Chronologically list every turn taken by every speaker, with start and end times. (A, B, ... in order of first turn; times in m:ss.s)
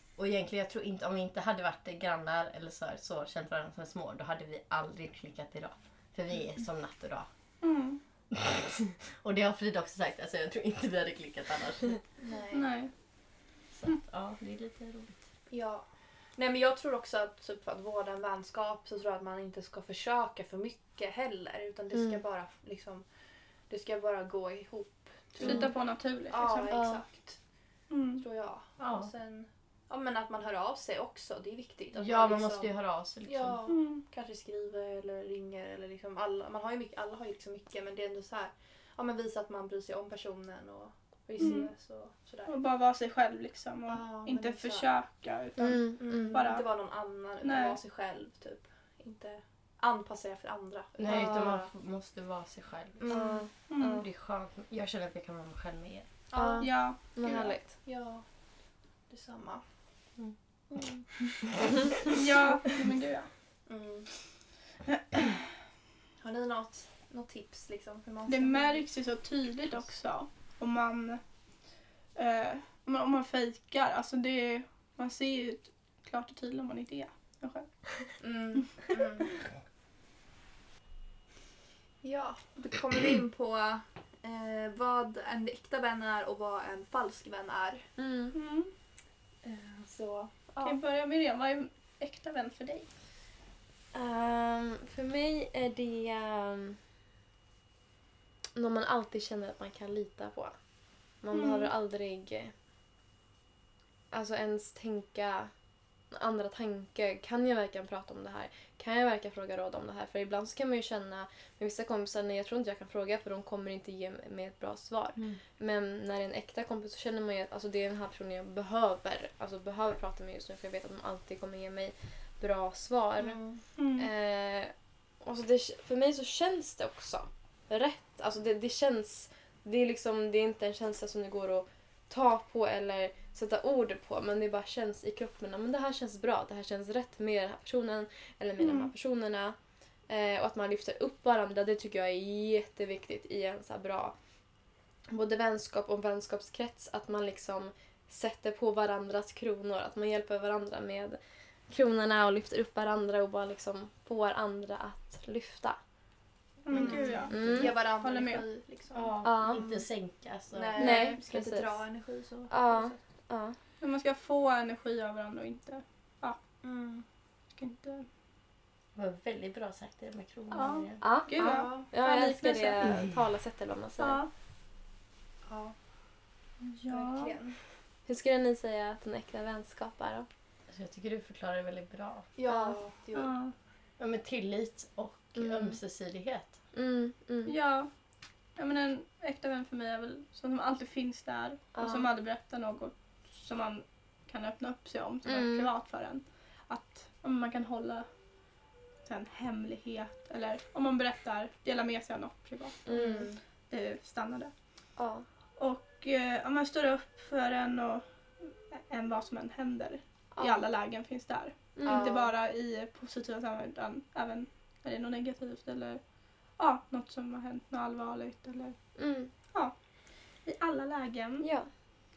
0:00.2-0:07.3 A
0:07.6-0:08.0 B
0:08.3-0:12.0 A
0:12.2-0:12.7 C
0:12.5-0:12.9 B
0:13.7-0:15.2 A
0:15.5-0:15.8 C
0:16.4-0:23.0 C
0:21.9-0:22.2 D
0:23.7-0:25.7 C
0:25.4-0:26.8 B
0:25.4-0:25.7 D
0:26.3-0:27.4 C
0:26.7-0:27.0 D
0:27.9-0:28.2 B
0:28.2-0:32.7 C
0:28.8-0:29.1 A
0:31.9-0:33.6 A
0:33.2-0:42.5 C
0:33.7-0:34.0 B
0:41.4-0:41.7 B
0:42.5-0:46.7 B
0:43.9-0:44.9 C
0:45.6-0:46.4 D
0:46.0-0:51.7 C
0:47.4-0:47.8 B
0:51.0-0:53.1 A
0:53.0-0:53.4 C
0:53.1-0:54.0 D
0:53.7-0:54.0 B
0:53.8-0:56.1 A
0:56.3-0:58.2 C
0:56.3-0:57.7 D
0:56.6-0:57.0 B
0:59.1-0:59.6 C
1:00.7-1:01.4 C
1:02.1-1:03.3 B
1:03.7-1:04.1 C
1:04.9-1:05.3 B
1:06.2-1:08.8 C
1:08.3-1:11.2 B
1:12.2-1:17.7 B
1:18.2-1:19.3 C
1:22.0-1:27.8 C
1:28.0-1:28.3 D
1:28.3-1:28.7 B
1:29.4-1:30.7 C
1:30.6-1:32.9 B
1:33.9-1:36.8 D
1:38.5-1:40.6 D
1:41.2-1:42.5 D
1:41.3-1:41.7 B
1:44.1-1:45.5 D
1:46.1-2:03.4 D
2:03.2-2:03.6 C
2:03.8-2:04.1 B
2:04.0-2:19.6 D
2:18.6-2:18.9 B
2:20.1-2:24.1 D
2:25.1-2:35.8 D
2:36.6-2:38.4 B
2:36.7-2:39.8 C
2:36.8-2:37.7 A
2:36.9-2:37.8 D
2:38.9-2:41.0 A
2:39.2-2:39.6 D
2:40.5-2:43.0 C
2:40.8-2:41.8 D
2:42.5-2:43.6 D
2:43.8-2:46.4 B
2:46.6-2:47.0 C
2:47.6-2:48.0 B
2:48.9-2:51.0 A
2:50.5-2:52.9 B
2:51.0-2:54.2 D
2:51.4-2:51.8 C
2:54.0-2:54.3 B
2:55.5-2:55.7 C
2:56.7-2:57.3 B
2:56.9-2:57.6 C
2:58.1-3:00.3 D
3:00.7-3:02.3 A
3:02.4-3:03.3 C
3:02.5-3:02.8 D
3:03.1-3:03.5 B
3:04.0-3:06.5 A
3:05.3-3:05.8 D
3:06.7-3:07.5 D
3:07.4-3:07.9 B
3:08.6-3:18.1 B
3:11.7-3:12.1 D
3:15.2-3:15.7 D
3:19.0-3:23.0 B
3:22.8-3:23.3 D
3:22.9-3:23.4 C
3:23.7-3:24.5 B
3:25.0-3:25.2 D
3:25.6-3:36.0 B
3:30.3-3:30.6 D
3:31.8-3:32.1 D
3:31.8-3:32.3 C
3:36.6-3:38.8 B
3:39.0-3:39.3 D
3:40.4-3:41.4 B
3:41.4-3:41.7 D